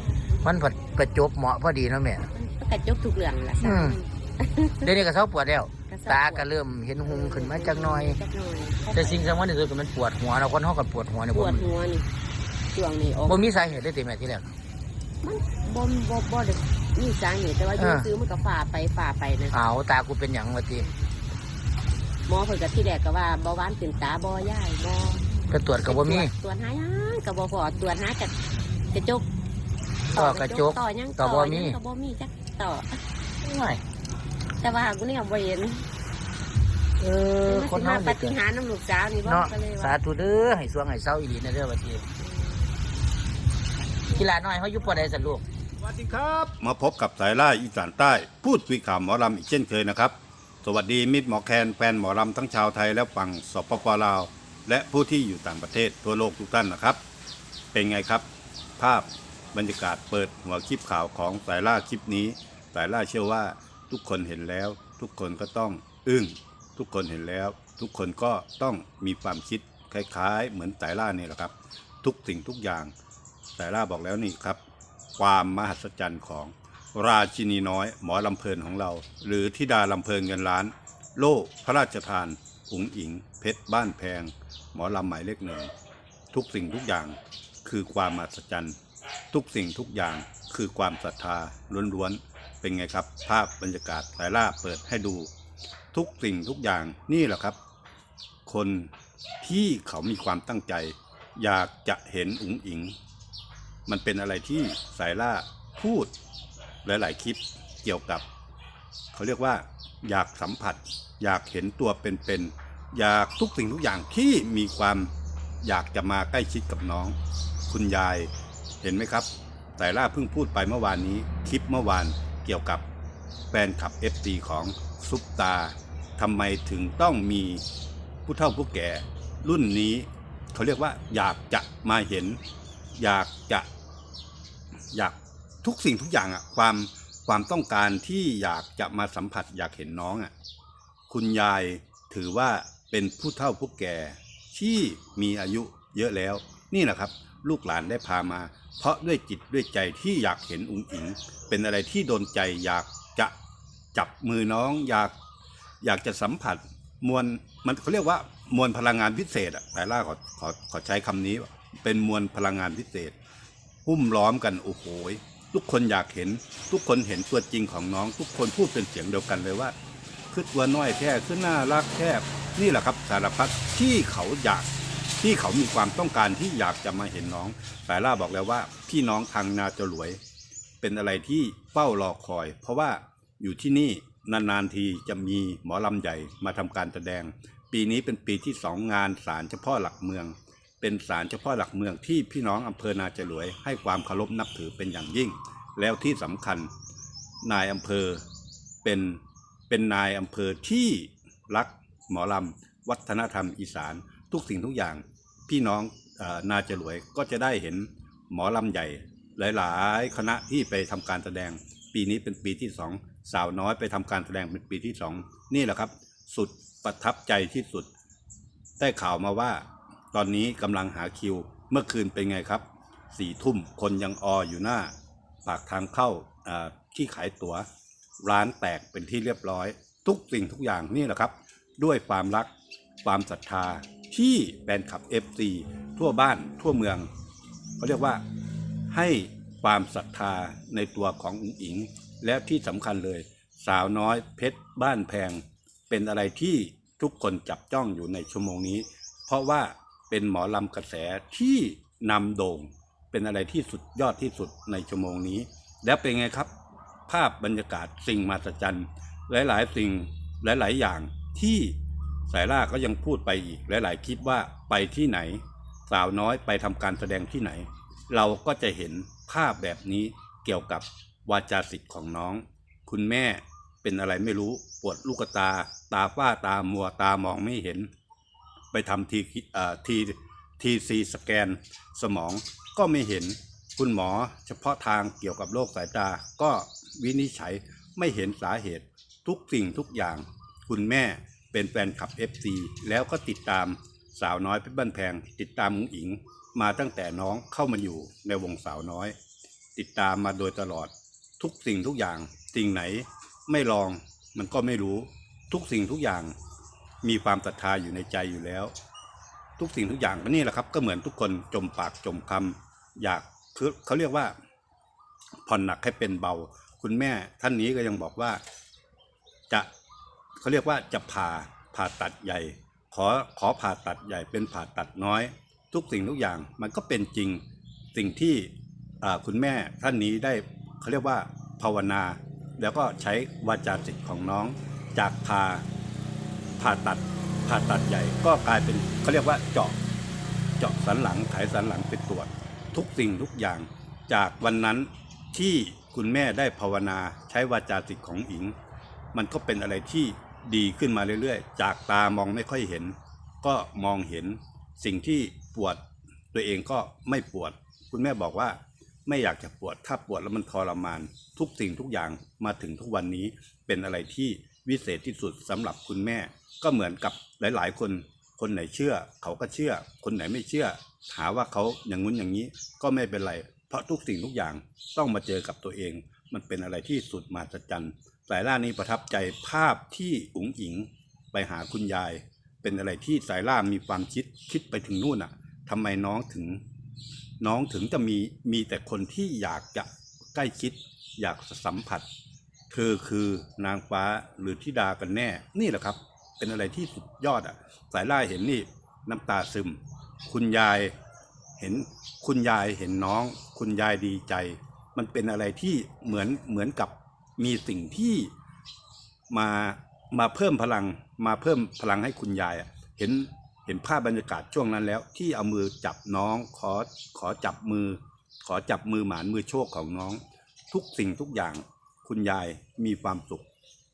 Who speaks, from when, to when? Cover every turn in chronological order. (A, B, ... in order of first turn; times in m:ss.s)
0:00.4-0:02.3 A
0:02.3-0:04.9 B
0:03.6-0:04.0 A
0:04.8-0:08.2 A
0:05.9-0:06.5 B
0:07.0-0:09.2 B
0:09.0-0:11.7 A
0:11.3-0:12.0 B
0:12.7-0:13.4 B
0:13.2-0:14.5 A
0:15.2-0:19.5 B
0:17.8-0:18.1 A
0:19.5-0:20.8 A
0:20.8-0:21.1 B
0:22.3-0:25.3 B
0:25.5-0:26.3 A
0:25.8-0:28.3 B
0:28.9-0:29.3 B
0:30.1-0:31.8 A
0:30.1-0:33.0 B
0:33.4-0:33.8 A
0:34.6-0:35.8 B
0:37.0-0:38.4 A
0:37.4-0:40.0 B
0:39.2-0:42.0 A
0:42.2-0:42.7 B
0:44.2-0:45.4 A
0:45.8-0:57.0 C
0:57.7-0:58.2 C
0:58.8-1:12.9 C
1:13.6-1:14.6 C
1:15.2-1:25.7 C
1:26.3-1:28.7 C
1:29.3-1:35.3 C
1:35.9-1:37.6 C
1:38.4-1:38.9 C
1:39.4-1:42.9 C
1:43.9-1:46.1 C
1:46.8-1:48.2 C
1:49.1-1:55.1 C
1:55.6-1:57.1 C
1:57.7-1:58.3 C
1:58.8-2:02.8 C
2:03.5-2:07.6 C
2:08.2-2:12.4 C
2:13.0-2:13.7 C
2:14.9-2:20.3 C
2:21.1-2:33.3 C
2:33.9-2:35.1 C
2:35.8-2:43.1 C
2:43.8-2:49.7 C
2:50.3-2:54.7 C
2:55.2-3:00.2 C
3:00.8-3:16.7 C
3:17.4-3:18.2 C
3:18.8-3:37.9 C
3:38.8-3:44.9 C
3:45.4-3:47.6 C
3:48.2-3:52.5 C
3:53.0-3:57.1 C
3:57.8-3:58.2 C
3:58.9-4:16.5 C
4:17.1-4:21.7 C
4:22.3-4:37.9 C
4:38.7-4:59.1 C
4:59.8-5:06.3 C
5:07.0-5:08.7 C
5:09.6-5:14.3 C
5:15.4-5:18.4 C
5:20.4-5:27.4 C
5:27.9-5:28.5 C
5:29.0-5:35.6 C
5:36.6-5:39.8 C
5:40.6-5:48.5 C
5:49.1-5:55.8 C
5:56.3-6:26.6 C
6:27.4-6:32.0 C
6:32.7-6:40.9 C
6:41.6-6:48.3 C
6:49.3-7:00.2 C
7:00.7-7:03.5 C